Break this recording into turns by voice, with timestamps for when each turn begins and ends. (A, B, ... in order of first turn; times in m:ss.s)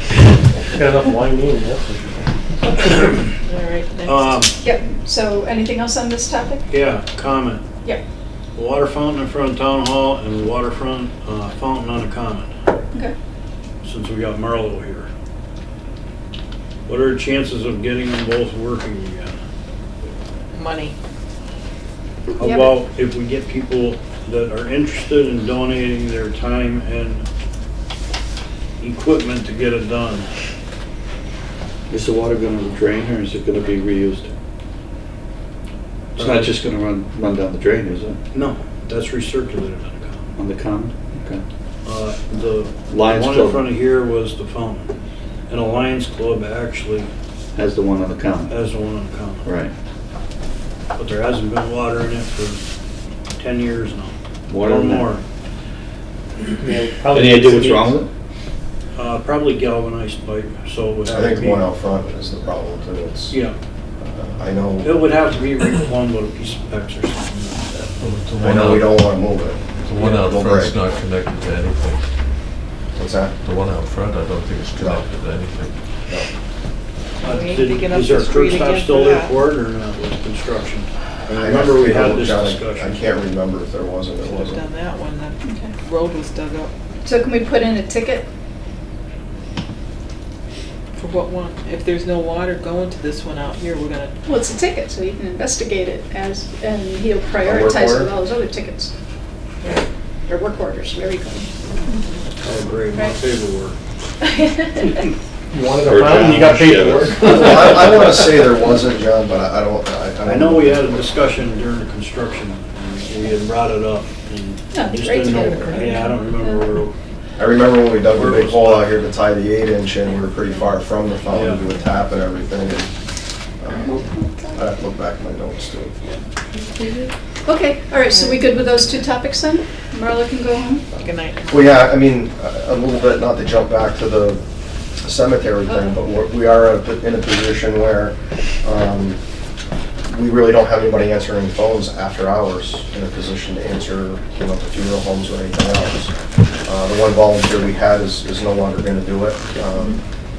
0:00.8-0:02.3 A
0:02.8-0:03.3 B
0:03.4-0:04.4 C
0:04.0-0:04.5 B
0:04.6-0:06.7 D
0:06.7-0:07.6 B
0:08.5-0:12.5 B
0:13.8-0:15.1 B
0:16.9-0:19.4 B
0:20.5-0:20.9 C
0:22.3-0:27.2 B
0:22.4-0:22.7 D
0:28.8-0:30.3 B
0:31.9-0:34.3 E
0:36.2-0:36.6 B
0:36.2-0:38.2 E
0:38.3-0:40.3 B
0:40.4-0:41.4 E
0:41.8-0:44.9 B
0:42.9-0:43.6 E
0:45.5-0:47.1 B
0:47.5-0:48.5 E
0:48.5-0:49.5 B
0:49.4-0:49.7 E
0:50.9-0:52.6 B
0:53.4-0:55.2 B
0:54.5-0:55.1 E
0:56.6-0:58.0 A
0:57.1-0:58.1 E
0:58.9-1:01.7 B
1:01.0-1:03.4 F
1:04.0-1:05.0 F
1:04.8-1:07.9 B
1:08.0-1:09.0 G
1:08.4-1:10.8 F
1:09.8-1:12.0 G
1:12.9-1:13.3 F
1:13.4-1:15.7 G
1:14.8-1:15.0 F
1:17.2-1:19.4 C
1:17.2-1:23.1 B
1:21.3-1:24.6 F
1:24.2-1:26.7 C
1:25.4-1:25.7 D
1:27.0-1:28.2 D
1:31.0-1:34.1 C
1:34.2-1:38.9 D
1:37.4-1:38.1 F
1:40.3-1:41.5 D
1:42.4-1:43.8 B
1:44.2-1:45.1 D
1:45.5-1:48.1 A
1:45.8-1:47.2 G
1:46.1-1:51.3 F
1:50.2-1:56.9 B
1:54.7-1:56.6 D
1:55.6-1:56.2 C
1:57.4-2:02.9 F
1:58.0-1:59.1 B
2:01.3-2:01.6 B
2:03.6-2:04.0 F
2:04.5-2:05.9 F
2:06.5-2:07.1 C
2:07.4-2:10.8 D
2:08.1-2:08.7 C
2:10.9-2:14.4 F
2:11.0-2:11.7 C
2:15.0-2:19.2 F
2:15.7-2:16.0 D
2:20.0-2:26.1 F
2:26.6-2:30.0 F